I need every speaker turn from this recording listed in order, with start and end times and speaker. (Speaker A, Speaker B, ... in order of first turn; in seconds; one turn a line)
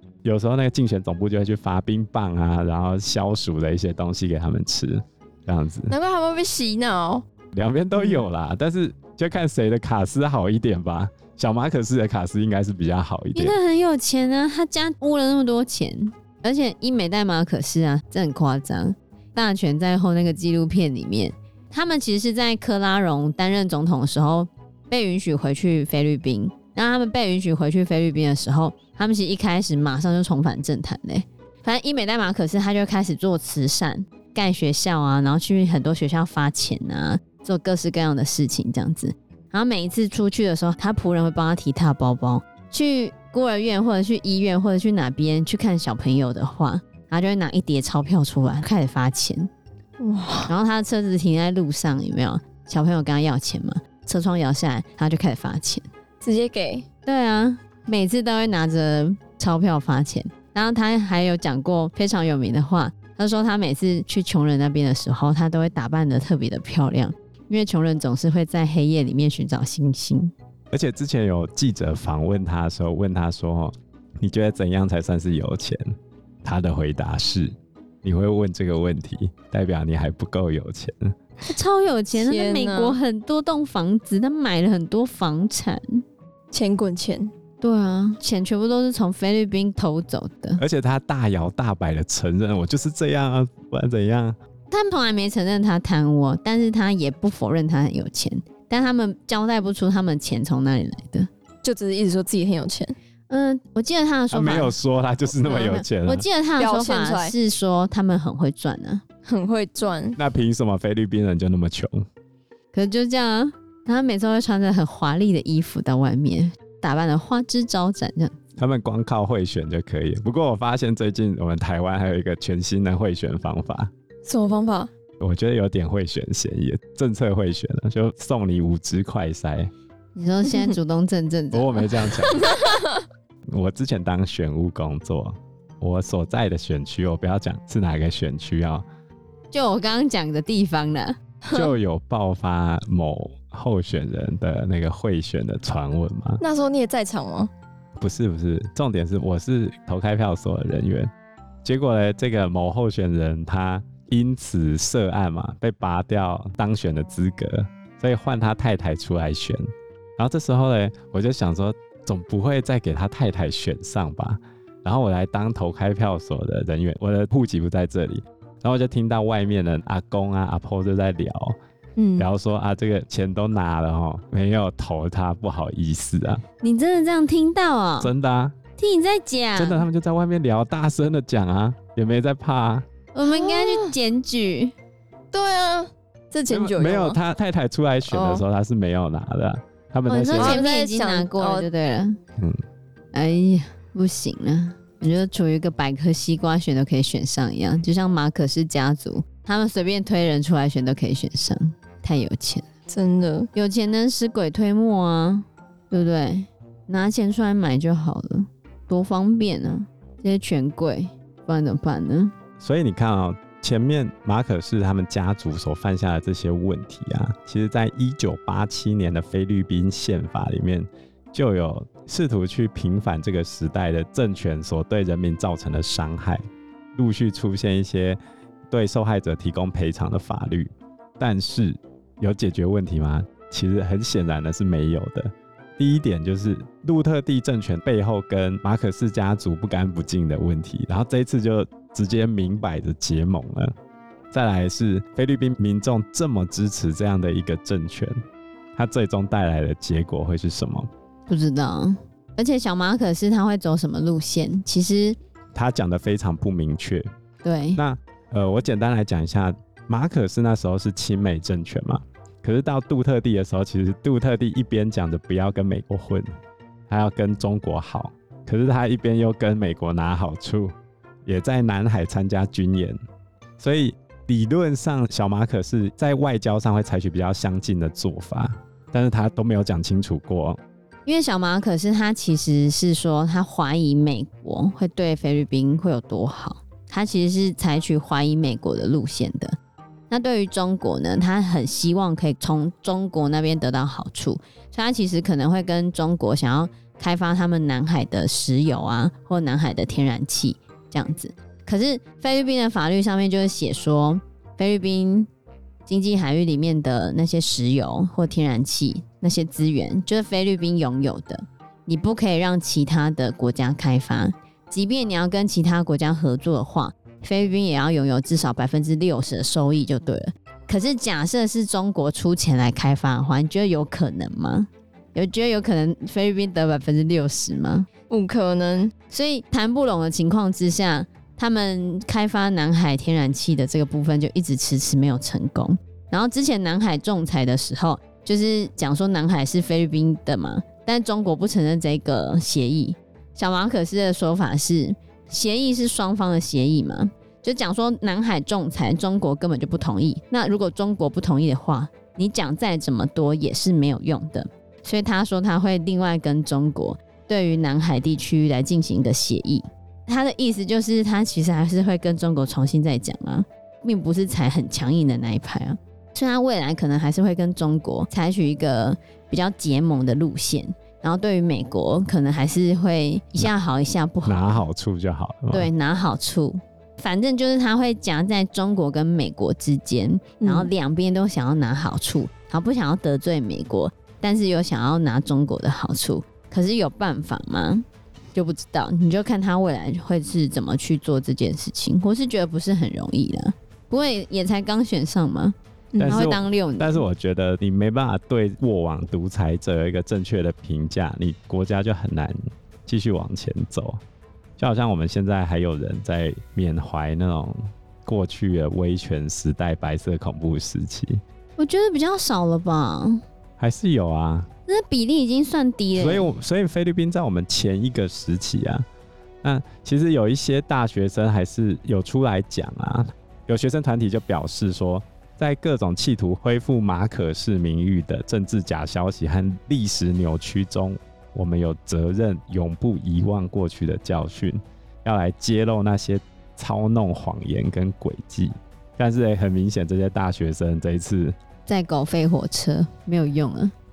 Speaker A: 0.2-6.0
Speaker B: 5.9-7.2
Speaker A: 7.5-13.6
Speaker C: 13.3-49.5
Speaker B: 50.0-50.5
Speaker C: 50.5-55.9
Speaker B: 56.2-56.9
Speaker C: 57.1-70.3
Speaker A: 70.7-75.8
Speaker A: 76.4-81.2
Speaker C: 81.5-86.0
Speaker B: 82.1-83.0
Speaker B: 86.5-87.3
Speaker C: 87.6-90.6
Speaker A: 90.6-94.4
Speaker C: 94.7-101.3
Speaker B: 101.6-103.0
Speaker C: 103.3-104.8
Speaker A: 104.3-106.3
Speaker C: 105.4-109.0
Speaker B: 106.6-107.3
Speaker B: 109.3-110.2
Speaker A: 110.2-112.0
Speaker C: 112.7-118.4
Speaker A: 118.6-123.9
Speaker B: 124.2-124.9
Speaker A: 125.2-129.7
Speaker C: 130.2-131.8
Speaker A: 131.5-132.4
Speaker B: 132.3-132.8
Speaker A: 133.5-138.8
Speaker C: 139.5-141.2
Speaker B: 141.5-141.7
Speaker A: 141.5-146.4
Speaker B: 146.4-147.5
Speaker A: 148.0-151.1
Speaker A: 151.7-159.6
Speaker A: 160.2-171.6
Speaker B: 172.0-172.3
Speaker A: 172.2-176.4
Speaker C: 176.6-178.1
Speaker A: 178.0-178.6
Speaker C: 178.8-179.9
Speaker A: 179.6-182.8
Speaker C: 183.1-184.8
Speaker B: 183.2-183.9
Speaker B: 185.3-187.2
Speaker A: 186.5-190.6
Speaker B: 188.1-188.4
Speaker C: 190.1-192.2
Speaker B: 190.4-191.7
Speaker C: 193.1-202.7
Speaker B: 202.9-203.5
Speaker C: 203.5-212.3
Speaker A: 212.6-226.4
Speaker A: 227.0-228.2
Speaker A: 228.7-243.7
Speaker A: 244.3-248.2
Speaker A: 248.8-250.9
Speaker C: 251.3-255.2
Speaker A: 255.5-257.1
Speaker C: 257.4-257.8
Speaker A: 257.8-266.3
Speaker A: 266.9-270.7
Speaker A: 271.2-273.0
Speaker A: 273.6-280.6
Speaker C: 281.1-289.6
Speaker C: 290.1-305.3
Speaker C: 305.9-327.9
Speaker B: 328.1-328.9
Speaker C: 329.1-374.6
Speaker A: 374.3-375.7
Speaker C: 375.5-395.6
Speaker B: 380.4-380.7
Speaker B: 395.9-396.3
Speaker A: 396.0-402.4
Speaker C: 396.1-397.1
Speaker A: 402.9-404.0
Speaker A: 404.6-411.2
Speaker C: 411.6-413.2
Speaker A: 413.6-414.5
Speaker C: 414.7-416.3
Speaker A: 415.9-418.9
Speaker A: 419.4-441.4
Speaker C: 441.7-443.7